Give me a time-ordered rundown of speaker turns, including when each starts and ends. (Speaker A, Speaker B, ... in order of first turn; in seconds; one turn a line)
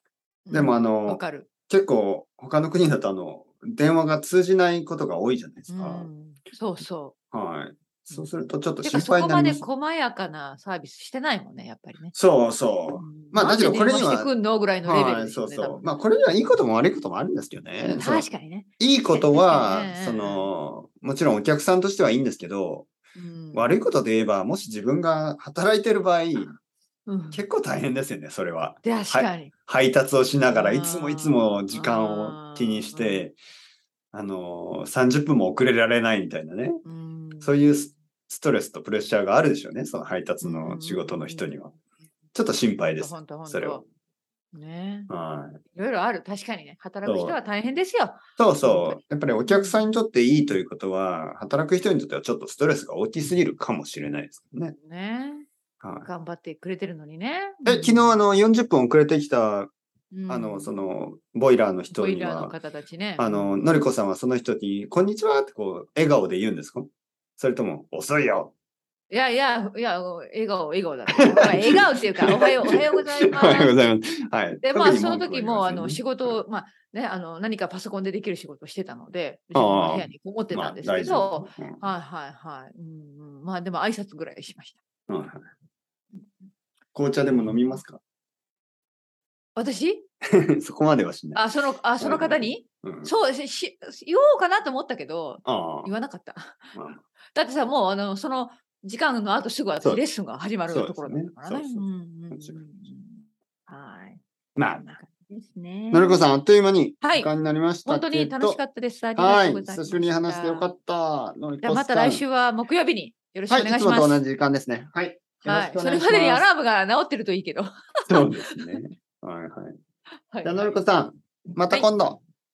Speaker A: 0.5-1.5
Speaker B: 0.5-6.1
Speaker A: 5.7-7.2
Speaker B: 7.3-9.6
Speaker A: 8.8-12.1
Speaker B: 12.1-14.3
Speaker A: 12.9-15.9
Speaker B: 14.8-18.3
Speaker A: 17.9-20.5
Speaker B: 18.8-22.9
Speaker A: 23.2-23.8
Speaker B: 23.5-26.5
Speaker A: 26.4-27.4
Speaker B: 27.3-33.4
Speaker A: 28.8-29.5
Speaker A: 30.5-33.3
Speaker B: 34.1-36.8
Speaker A: 36.8-37.5
Speaker B: 37.4-41.8
Speaker A: 40.4-41.5
Speaker B: 42.4-43.8
Speaker A: 43.0-43.9
Speaker A: 44.5-45.1
Speaker B: 45.1-45.6
Speaker A: 45.7-49.9
Speaker B: 47.0-47.4
Speaker B: 48.4-54.8
Speaker A: 54.8-55.5
Speaker B: 55.8-56.1
Speaker A: 56.0-58.2
Speaker B: 57.6-59.7
Speaker A: 60.1-60.8
Speaker B: 60.3-62.6
Speaker A: 61.9-63.6
Speaker B: 63.2-68.5
Speaker A: 69.1-73.8
Speaker B: 71.2-76.4
Speaker A: 74.6-84.8
Speaker B: 79.5-81.8
Speaker B: 85.1-85.5
Speaker B: 86.9-88.0
Speaker A: 87.3-87.8
Speaker A: 89.6-90.0
Speaker B: 90.3-91.4
Speaker A: 91.3-96.7
Speaker B: 92.0-93.1
Speaker B: 95.5-95.9
Speaker B: 96.8-97.0
Speaker A: 97.3-106.3
Speaker B: 100.7-102.6
Speaker B: 104.6-104.8
Speaker B: 105.9-108.6
Speaker A: 107.0-107.3
Speaker A: 107.8-110.7
Speaker B: 109.2-112.2
Speaker A: 111.6-114.2
Speaker B: 113.5-116.5
Speaker A: 115.5-118.8
Speaker B: 118.1-119.8
Speaker A: 120.3-120.8
Speaker B: 120.4-122.2